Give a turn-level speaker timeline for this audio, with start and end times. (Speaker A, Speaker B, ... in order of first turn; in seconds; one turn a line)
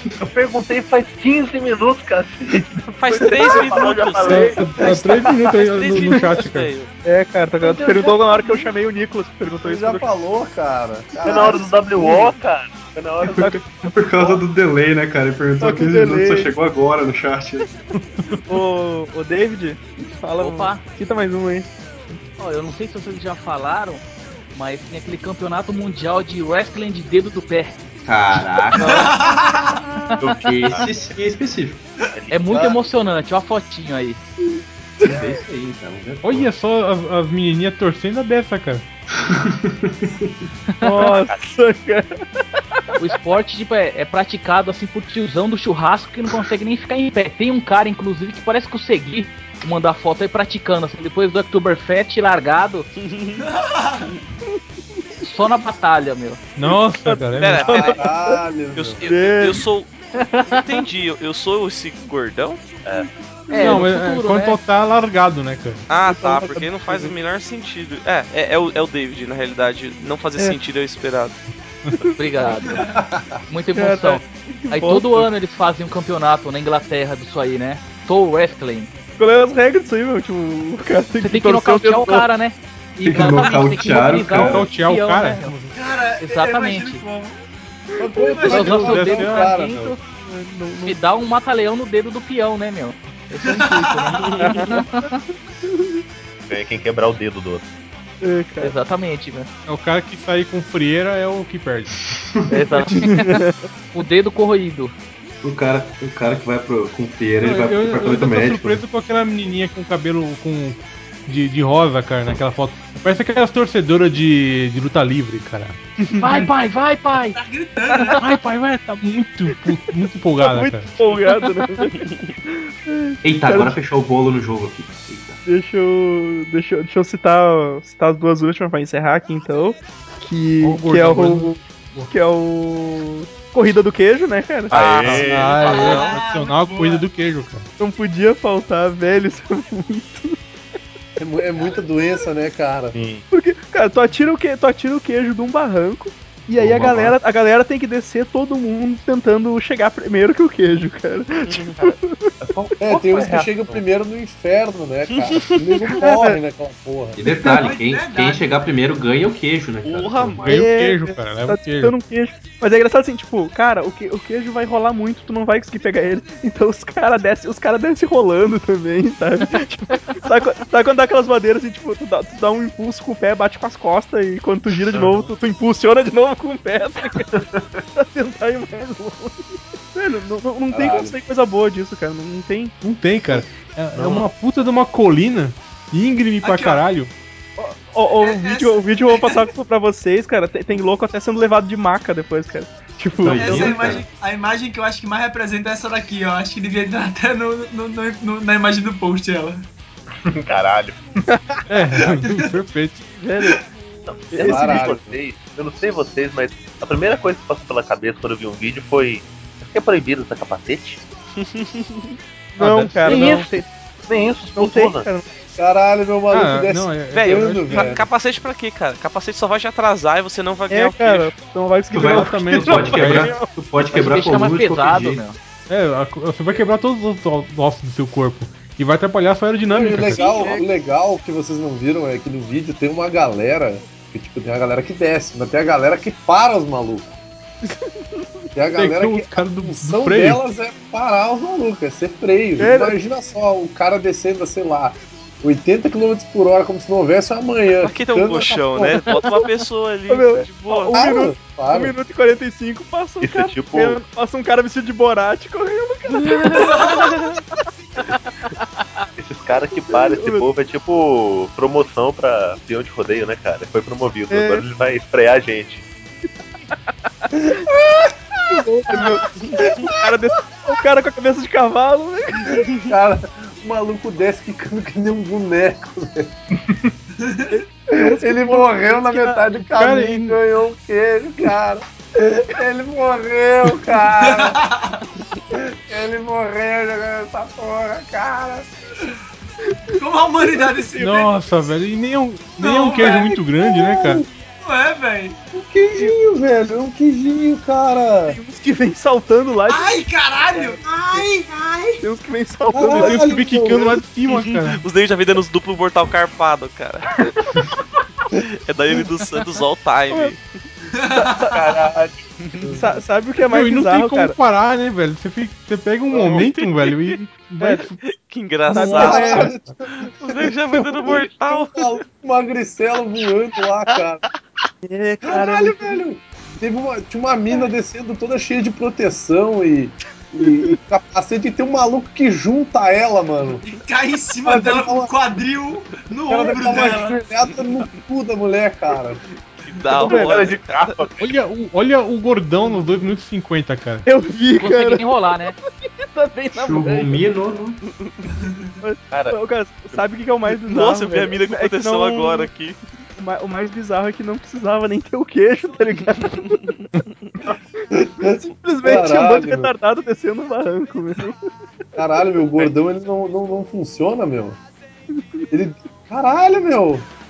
Speaker A: 0.1-5.2
Speaker B: 3.0-4.6
Speaker C: 4.2-6.7
Speaker D: 4.8-5.2
Speaker B: 5.5-6.9
Speaker D: 6.0-6.2
Speaker D: 7.0-10.1
Speaker E: 7.7-8.5
Speaker E: 9.6-11.7
Speaker A: 11.2-13.7
Speaker D: 11.3-12.3
Speaker F: 13.2-17.7
Speaker D: 13.3-13.6
Speaker D: 15.6-16.5
Speaker D: 18.5-21.7
Speaker G: 20.4-20.8
Speaker G: 22.4-24.0
Speaker G: 24.6-27.8
Speaker F: 28.1-29.0
Speaker H: 28.8-29.8
Speaker G: 28.8-29.1
Speaker G: 30.1-30.5
Speaker A: 30.2-30.9
Speaker F: 30.3-31.8
Speaker A: 32.1-33.1
Speaker G: 32.3-34.2
Speaker F: 35.0-36.5
Speaker C: 36.2-38.9
Speaker F: 39.2-40.3
Speaker G: 40.7-41.1
Speaker D: 40.8-42.1
Speaker G: 43.0-52.9
Speaker B: 53.0-53.4
Speaker H: 53.4-54.1
Speaker G: 55.2-56.4
Speaker C: 56.6-57.7
Speaker D: 56.6-58.4
Speaker B: 57.4-58.1
Speaker E: 57.6-59.0
Speaker B: 58.8-59.9
Speaker D: 59.0-59.6
Speaker G: 60.2-60.8
Speaker B: 60.4-62.6
Speaker D: 63.5-63.9
Speaker G: 63.5-64.6
Speaker C: 63.6-65.8
Speaker B: 65.9-71.4
Speaker D: 66.1-67.1
Speaker C: 71.8-72.1
Speaker G: 72.2-72.9
Speaker H: 72.6-73.0
Speaker E: 72.9-73.4
Speaker G: 73.5-78.9
Speaker D: 73.8-75.3
Speaker D: 79.2-82.3
Speaker G: 81.2-85.5
Speaker F: 83.0-84.7
Speaker C: 84.3-85.8
Speaker H: 85.7-87.4
Speaker G: 86.2-87.0
Speaker E: 88.0-89.9
Speaker H: 88.2-88.7
Speaker D: 88.3-88.8
Speaker G: 88.5-90.0
Speaker C: 88.7-89.9
Speaker D: 90.2-91.0
Speaker G: 90.8-95.2
Speaker H: 93.4-94.5
Speaker D: 94.3-94.8
Speaker A: 96.5-97.7
Speaker D: 98.2-98.8
Speaker G: 98.6-99.5
Speaker C: 99.7-102.1
Speaker G: 102.5-104.9
Speaker D: 102.9-103.6
Speaker F: 105.4-108.8
Speaker C: 107.4-115.8
Speaker D: 116.1-116.4
Speaker G: 116.2-117.4
Speaker H: 117.3-118.2
Speaker C: 118.2-120.9
Speaker D: 120.4-123.8
Speaker F: 123.2-125.4
Speaker D: 125.5-134.8
Speaker C: 130.6-132.1
Speaker A: 134.7-135.7
Speaker B: 134.7-136.1
Speaker C: 135.0-137.7
Speaker H: 135.5-137.1
Speaker D: 137.8-140.4
Speaker E: 141.2-143.0
Speaker A: 142.9-143.2
Speaker D: 143.3-152.3
Speaker F: 146.6-147.1
Speaker B: 151.4-151.8
Speaker A: 152.4-153.8
Speaker E: 152.8-157.2
Speaker B: 155.2-155.8
Speaker D: 156.0-156.4
Speaker F: 157.2-160.6
Speaker H: 157.4-158.6
Speaker B: 159.8-160.4
Speaker C: 160.4-162.0
Speaker D: 160.5-177.3
Speaker A: 177.3-177.6
Speaker D: 178.0-182.7
Speaker E: 180.7-181.2
Speaker C: 182.8-187.1
Speaker H: 186.4-186.8
Speaker D: 187.6-193.8
Speaker H: 188.2-189.5
Speaker F: 193.2-194.1
Speaker H: 193.3-199.7
Speaker A: 193.7-194.0
Speaker A: 200.2-201.0
Speaker C: 201.7-203.2
Speaker H: 202.2-202.5
Speaker D: 203.2-203.6
Speaker A: 204.1-211.0
Speaker D: 204.3-204.9
Speaker E: 204.4-205.2
Speaker B: 211.4-212.1
Speaker D: 212.6-213.7
Speaker C: 212.6-213.5
Speaker A: 213.1-213.5
Speaker A: 214.1-215.1
Speaker D: 214.6-215.3
Speaker E: 215.6-218.1
Speaker C: 216.3-217.9
Speaker B: 217.1-221.4
Speaker D: 220.7-223.5
Speaker F: 221.9-225.2
Speaker C: 222.0-223.4
Speaker G: 223.9-225.4
Speaker C: 225.7-230.3
Speaker E: 229.7-237.2
Speaker H: 230.1-230.6
Speaker E: 238.6-249.0
Speaker C: 238.8-240.4
Speaker D: 242.6-243.0
Speaker B: 247.8-251.0
Speaker D: 250.1-257.2
Speaker E: 250.9-251.9
Speaker A: 253.2-254.0
Speaker H: 256.6-257.1
Speaker A: 259.2-265.9
Speaker D: 259.9-260.5
Speaker D: 264.3-264.6
Speaker D: 267.3-267.6
Speaker E: 267.4-269.1
Speaker D: 268.5-272.7
Speaker E: 272.6-276.3
Speaker H: 277.2-277.5
Speaker D: 277.5-279.5
Speaker E: 278.0-284.6
Speaker C: 279.8-280.4
Speaker H: 284.2-285.0
Speaker E: 285.5-288.7
Speaker H: 290.0-291.5
Speaker C: 291.0-294.2
Speaker H: 292.6-293.4
Speaker E: 293.7-294.2
Speaker H: 294.6-295.4
Speaker E: 295.5-298.4
Speaker D: 298.3-300.0
Speaker H: 299.7-302.0
Speaker D: 300.5-300.8
Speaker D: 302.0-303.4
Speaker E: 302.7-304.0
Speaker C: 302.9-304.8
Speaker B: 304.3-307.3
Speaker B: 308.4-310.4
Speaker H: 310.9-311.8
Speaker D: 311.1-312.1
Speaker B: 312.4-312.7
Speaker D: 312.6-314.4
Speaker C: 313.5-318.0
Speaker B: 316.3-317.2
Speaker D: 317.6-317.9
Speaker B: 318.1-322.0
Speaker D: 318.7-319.6
Speaker E: 318.7-324.2
Speaker D: 324.8-326.0
Speaker E: 325.2-333.7
Speaker D: 330.4-330.8
Speaker H: 333.7-337.2
Speaker E: 334.4-335.1
Speaker E: 336.3-339.2
Speaker B: 339.6-341.0
Speaker D: 340.0-340.4
Speaker A: 340.1-341.3
Speaker C: 341.2-344.1
Speaker D: 344.1-345.1
Speaker G: 344.6-345.6
Speaker D: 346.1-347.2
Speaker F: 346.5-347.8
Speaker H: 348.4-348.7
Speaker D: 348.8-352.5
Speaker A: 349.1-349.4
Speaker B: 350.6-352.8
Speaker D: 353.2-356.6
Speaker E: 357.9-359.7
Speaker D: 358.3-361.4
Speaker E: 362.0-364.6
Speaker E: 365.5-367.1